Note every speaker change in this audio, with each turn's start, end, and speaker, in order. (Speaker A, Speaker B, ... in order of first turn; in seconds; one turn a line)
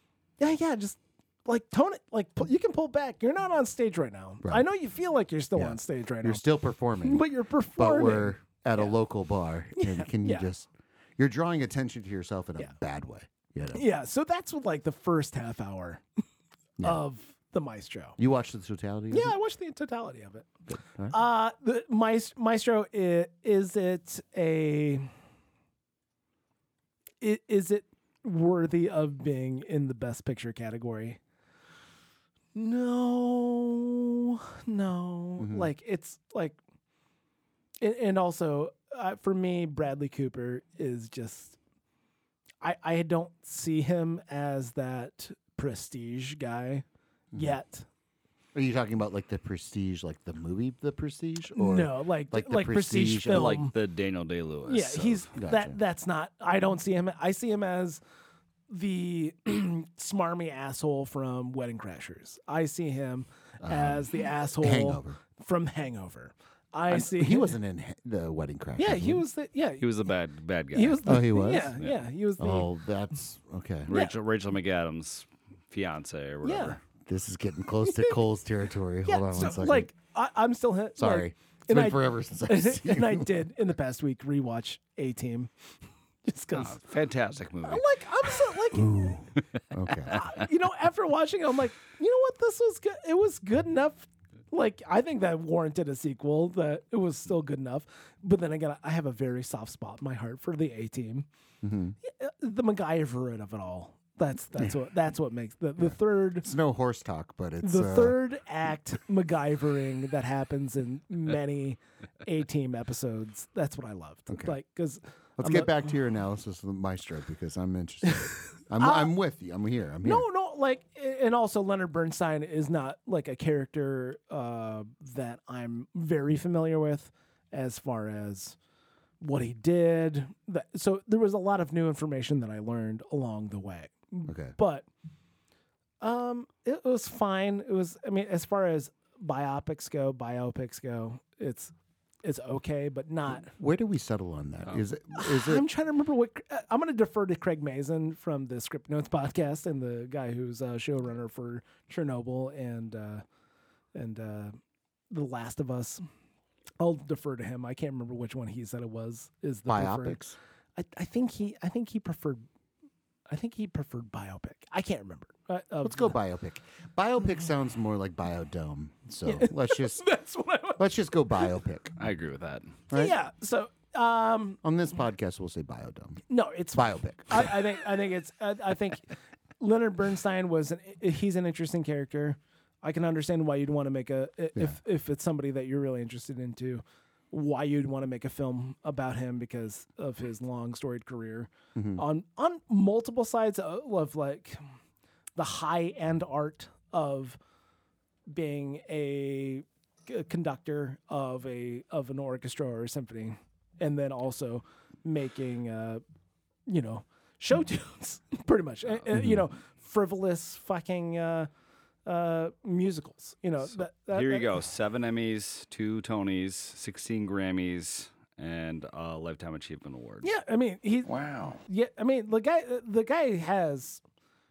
Speaker A: 0.4-6.4
Speaker B: 5.5-7.2
Speaker A: 7.0-8.9
Speaker B: 7.8-13.8
Speaker A: 9.8-10.5
Speaker A: 13.7-16.0
Speaker A: 16.8-18.2
Speaker B: 18.2-19.4
Speaker A: 19.1-20.5
Speaker B: 20.7-21.2
Speaker A: 21.1-25.1
Speaker A: 27.2-31.2
Speaker A: 32.5-36.6
Speaker B: 35.4-35.7
Speaker A: 37.8-41.6
Speaker A: 42.6-47.9
Speaker B: 48.5-53.6
Speaker A: 51.5-53.7
Speaker C: 53.3-55.2
Speaker A: 54.7-58.0
Speaker B: 55.4-55.8
Speaker A: 58.7-67.5
Speaker B: 63.6-64.0
Speaker B: 64.6-65.2
Speaker B: 66.9-69.2
Speaker A: 68.8-70.0
Speaker C: 69.8-72.0
Speaker A: 70.7-72.7
Speaker B: 71.0-71.8
Speaker B: 72.4-73.9
Speaker C: 73.9-76.8
Speaker A: 73.9-74.1
Speaker A: 76.4-76.8
Speaker B: 77.0-79.9
Speaker A: 77.8-78.1
Speaker A: 79.0-85.5
Speaker B: 81.0-83.3
Speaker A: 86.2-86.8
Speaker C: 86.5-87.8
Speaker A: 87.6-89.1
Speaker B: 88.7-90.2
Speaker A: 90.1-101.3
Speaker B: 101.6-102.0
Speaker A: 102.0-106.5
Speaker B: 105.8-108.2
Speaker A: 107.6-115.8
Speaker B: 114.3-114.5
Speaker B: 115.4-120.2
Speaker A: 118.8-119.1
Speaker A: 120.0-128.6
Speaker A: 129.2-134.9
Speaker B: 134.3-134.6
Speaker A: 136.0-143.5
Speaker B: 143.3-145.6
Speaker A: 145.1-153.2
Speaker A: 153.9-154.6
Speaker A: 155.1-156.0
Speaker A: 156.8-160.2
Speaker B: 159.7-160.3
Speaker A: 160.8-162.4
Speaker A: 163.3-166.2
Speaker B: 165.8-170.1
Speaker A: 169.2-170.8
Speaker B: 170.8-171.9
Speaker C: 172.0-172.8
Speaker B: 172.9-173.2
Speaker A: 172.9-174.6
Speaker B: 174.6-177.7
Speaker A: 176.3-194.6
Speaker B: 191.7-192.0
Speaker A: 195.3-197.4
Speaker A: 198.3-206.0
Speaker A: 206.7-211.5
Speaker B: 209.1-209.4
Speaker A: 212.1-214.5
Speaker C: 213.7-220.3
Speaker A: 220.2-224.0
Speaker B: 221.1-221.6